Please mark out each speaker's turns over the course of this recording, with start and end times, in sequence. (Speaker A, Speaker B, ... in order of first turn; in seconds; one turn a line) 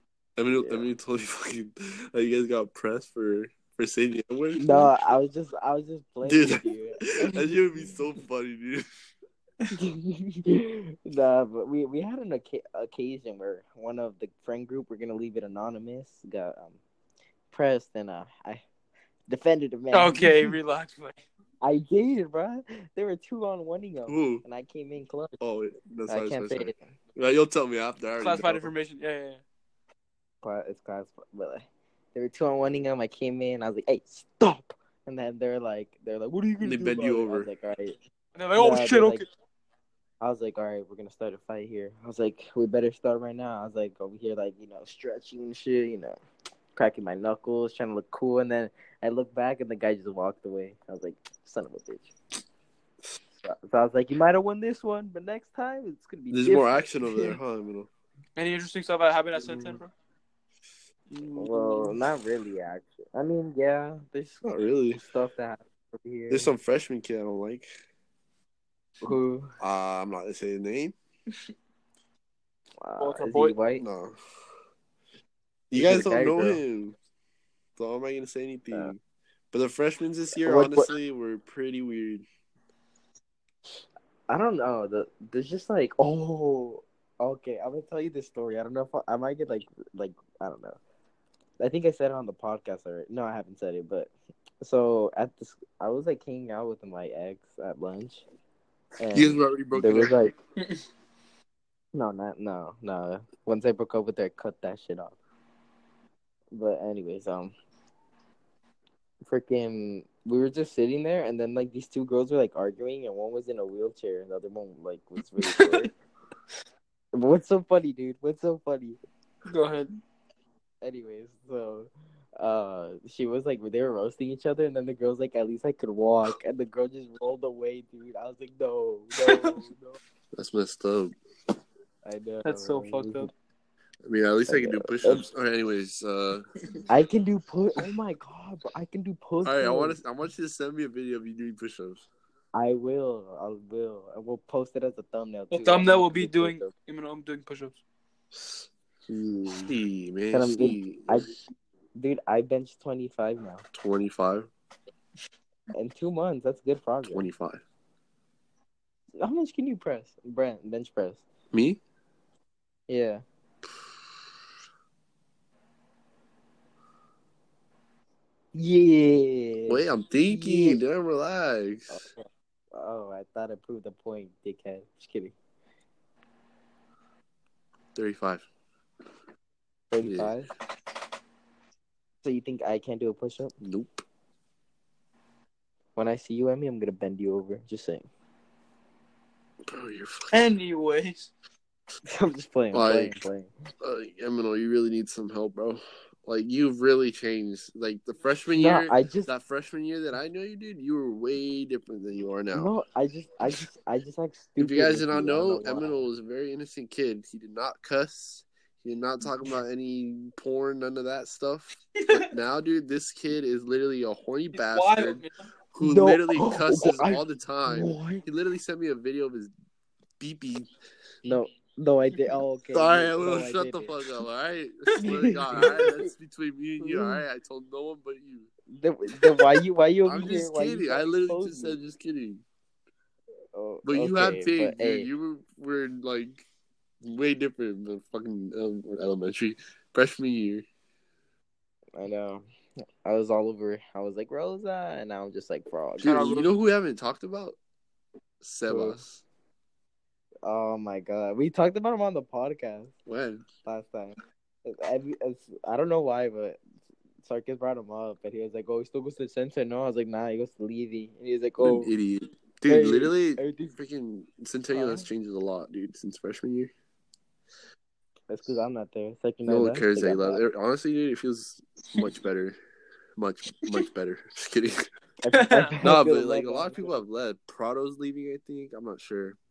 Speaker A: 0.4-5.0
Speaker B: 0.6-0.9
Speaker B: 4.6-8.0
Speaker A: 6.2-8.8
Speaker B: 9.7-16.8
Speaker B: 17.5-18.6
Speaker B: 19.3-20.6
Speaker C: 19.9-21.2
Speaker B: 21.6-25.4
Speaker A: 24.1-24.4
Speaker A: 25.4-28.7
Speaker B: 26.1-26.9
Speaker C: 28.2-29.4
Speaker B: 30.4-38.0
Speaker A: 36.6-37.5
Speaker C: 38.4-39.3
Speaker B: 38.6-39.2
Speaker B: 40.2-46.2
Speaker B: 46.8-52.1
Speaker B: 53.4-57.4
Speaker A: 56.3-57.9
Speaker C: 58.4-59.9
Speaker A: 59.4-59.8
Speaker A: 61.2-61.9
Speaker B: 61.4-64.4
Speaker A: 64.4-65.0
Speaker B: 65.0-66.5
Speaker A: 66.3-67.7
Speaker B: 69.0-69.6
Speaker A: 69.6-71.0
Speaker B: 72.8-73.8
Speaker C: 73.0-73.6
Speaker A: 73.8-74.2
Speaker A: 75.7-77.0
Speaker B: 75.7-76.6
Speaker A: 77.8-79.0
Speaker A: 79.5-82.3
Speaker B: 80.3-80.9
Speaker B: 84.3-90.8
Speaker B: 91.6-98.2
Speaker B: 99.0-100.3
Speaker A: 99.1-100.2
Speaker B: 101.9-105.2
Speaker B: 106.5-107.5
Speaker B: 109.2-115.9
Speaker C: 115.4-115.9
Speaker B: 117.1-119.0
Speaker C: 119.5-120.0
Speaker B: 120.8-130.0
Speaker C: 129.2-129.6
Speaker A: 130.3-131.2
Speaker B: 132.1-133.3
Speaker C: 132.4-133.3
Speaker A: 134.0-136.5
Speaker B: 134.5-135.2
Speaker B: 136.9-140.0
Speaker A: 139.4-142.1
Speaker B: 142.5-146.7
Speaker C: 145.5-147.8
Speaker A: 148.3-148.7
Speaker B: 149.3-149.7
Speaker A: 149.5-151.2
Speaker B: 150.3-151.3
Speaker B: 152.0-153.7
Speaker A: 153.7-154.5
Speaker B: 155.7-157.3
Speaker A: 157.1-157.6
Speaker B: 159.2-161.2
Speaker A: 161.5-161.8
Speaker B: 162.9-163.2
Speaker B: 168.5-170.8
Speaker A: 169.7-172.0
Speaker B: 171.9-175.3
Speaker A: 177.9-178.5
Speaker B: 179.9-180.5
Speaker A: 180.0-180.3
Speaker B: 182.2-183.5
Speaker A: 183.6-184.0
Speaker B: 186.0-188.1
Speaker A: 189.7-190.3
Speaker C: 190.3-191.3
Speaker B: 192.1-193.5
Speaker A: 192.7-193.1
Speaker A: 193.8-202.7
Speaker B: 198.5-199.3
Speaker B: 202.5-206.1
Speaker A: 204.6-219.5
Speaker C: 212.0-212.3
Speaker C: 214.5-215.5
Speaker B: 215.8-218.2
Speaker A: 220.2-220.7
Speaker B: 221.2-224.0
Speaker A: 222.7-228.5
Speaker B: 225.0-226.1
Speaker B: 226.8-227.2
Speaker B: 228.7-231.8
Speaker A: 230.1-232.4
Speaker B: 233.5-235.1
Speaker A: 233.8-236.5
Speaker A: 237.0-240.7
Speaker B: 242.0-242.5
Speaker B: 243.0-246.4
Speaker A: 246.0-247.6
Speaker C: 246.0-246.5
Speaker A: 248.4-249.2
Speaker B: 248.7-249.0
Speaker B: 250.4-252.9
Speaker A: 253.1-253.4
Speaker B: 253.7-256.6
Speaker B: 257.2-261.9
Speaker A: 261.6-266.7
Speaker B: 262.7-263.8
Speaker B: 264.7-265.1
Speaker B: 268.3-270.4
Speaker A: 269.5-272.6
Speaker A: 273.2-274.8
Speaker B: 275.2-276.9
Speaker C: 275.3-275.8
Speaker A: 275.8-279.4